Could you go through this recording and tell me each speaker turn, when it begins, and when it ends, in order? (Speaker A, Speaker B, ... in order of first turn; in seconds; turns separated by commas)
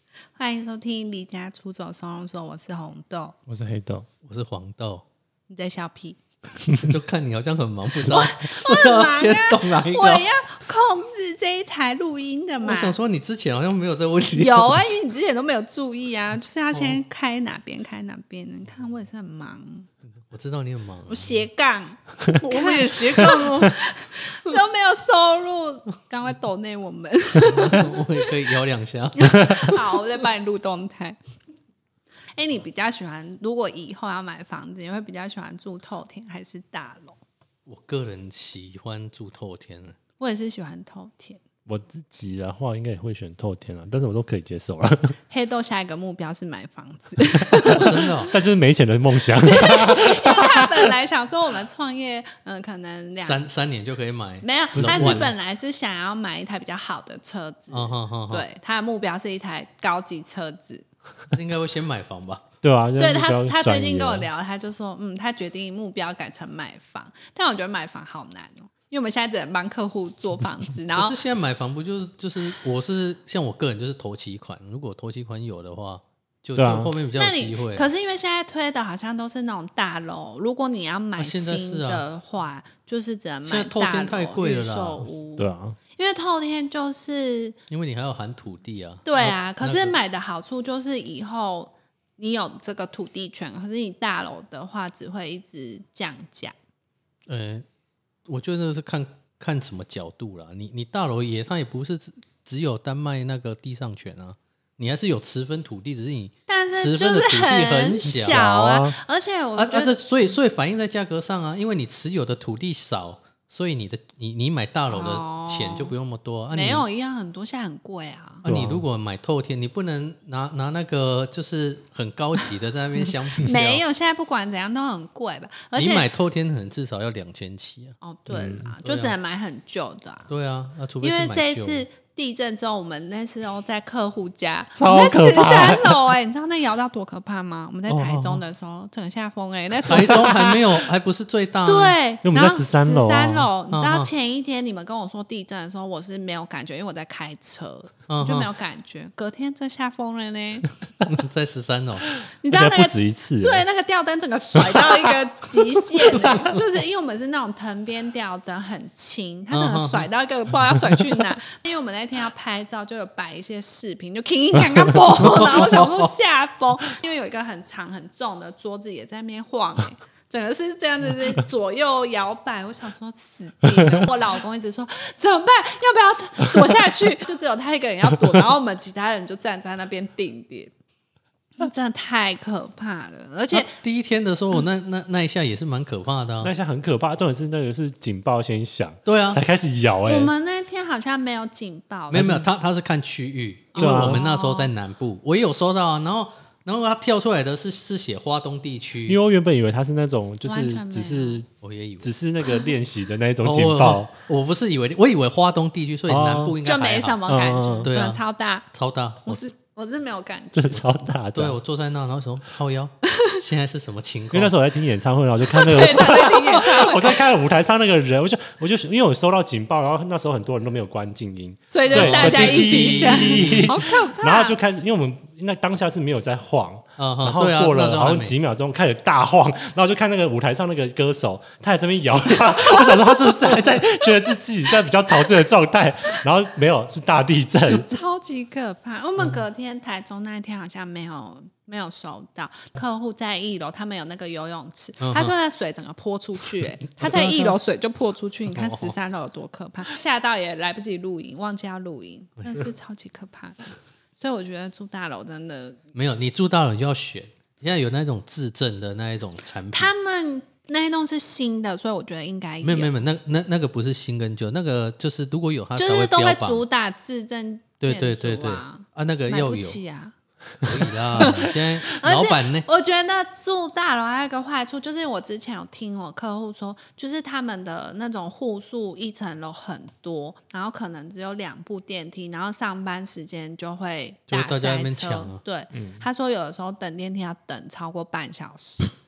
Speaker A: 0.4-3.4, Speaker B: 3.5-4.1, Speaker C: 4.2-5.0, Speaker A: 5.5-6.2, Speaker C: 6.7-10.2, Speaker A: 8.1-13.0, Speaker C: 12.6-14.8, Speaker A: 14.3-19.9, Speaker C: 16.7-17.0, Speaker C: 20.3-21.3, Speaker A: 21.1-28.4, Speaker C: 22.4-23.8, Speaker C: 27.4-30.0, Speaker A: 29.2-31.2, Speaker A: 32.4-37.2, Speaker C: 37.7-40.0, Speaker A: 40.2-41.4, Speaker B: 41.7-45.2, Speaker A: 45.3-48.3, Speaker C: 47.7-48.3, Speaker B: 48.3-50.9, Speaker A: 49.4-53.4, Speaker C: 53.2-55.3, Speaker A: 54.4-60.9, Speaker B: 54.8-55.3, Speaker C: 57.7-58.5, Speaker C: 61.3-62.4, Speaker B: 62.6-64.3, Speaker A: 63.0-71.2, Speaker C: 71.0-77.9, Speaker B: 76.6-76.9, Speaker A: 77.1-87.6, Speaker C: 81.2-82.0, Speaker C: 83.5-85.0, Speaker B: 85.4-85.8, Speaker C: 87.7-90.0, Speaker A: 89.0-96.5, Speaker C: 97.3-97.7, Speaker C: 98.3-108.4, Speaker A: 106.5-110.0, Speaker B: 108.1-109.0, Speaker C: 109.6-116.8, Speaker A: 114.9-115.9, Speaker A: 116.5-118.5, Speaker B: 118.5-118.8, Speaker C: 118.5-123.8, Speaker A: 123.4-126.1, Speaker C: 125.8-128.0, Speaker A: 128.0-130.3, Speaker B: 128.3-128.7, Speaker C: 128.8-129.1, Speaker C: 130.3-131.8, Speaker A: 131.0-140.6, Speaker B: 134.8-136.1, Speaker C: 137.9-138.4, Speaker C: 139.8-142.0, Speaker A: 141.7-150.7, Speaker B: 142.2-143.5, Speaker C: 143.7-144.1, Speaker C: 148.1-148.5, Speaker C: 151.1-152.1, Speaker A: 152.4-180.7, Speaker B: 152.5-153.7, Speaker C: 159.5-160.1, Speaker C: 165.1-166.1, Speaker B: 173.7-174.1, Speaker A: 181.6-183.8, Speaker C: 183.5-186.5, Speaker B: 186.4-190.3, Speaker C: 189.1-189.4, Speaker A: 190.1-192.5, Speaker C: 192.1-199.2, Speaker A: 193.8-194.7, Speaker B: 193.8-194.3, Speaker B: 199.1-201.5, Speaker A: 200.5-201.4, Speaker C: 201.6-202.1, Speaker B: 202.0-204.1, Speaker C: 203.4-207.2, Speaker B: 206.1-206.6, Speaker A: 206.6-208.7, Speaker B: 207.2-207.9, Speaker C: 207.8-208.2, Speaker C: 208.7-209.4, Speaker A: 209.3-210.8, Speaker B: 210.5-211.6, Speaker C: 211.3-214.5, Speaker B: 214.3-237.9, Speaker A: 215.5-217.2, Speaker C: 216.1-216.7, Speaker A: 221.7-224.6, Speaker C: 221.8-223.8, Speaker C: 227.0-228.4, Speaker A: 237.7-255.8, Speaker C: 245.0-245.3, Speaker C: 247.0-247.6, Speaker C: 248.5-248.9, Speaker C: 255.9-259.9, Speaker A: 259.7-262.9, Speaker C: 262.6-266.6, Speaker A: 265.8-288.9, Speaker C: 267.8-269.8, Speaker C: 270.6-272.7, Speaker C: 284.3-285.4, Speaker B: 285.7-286.0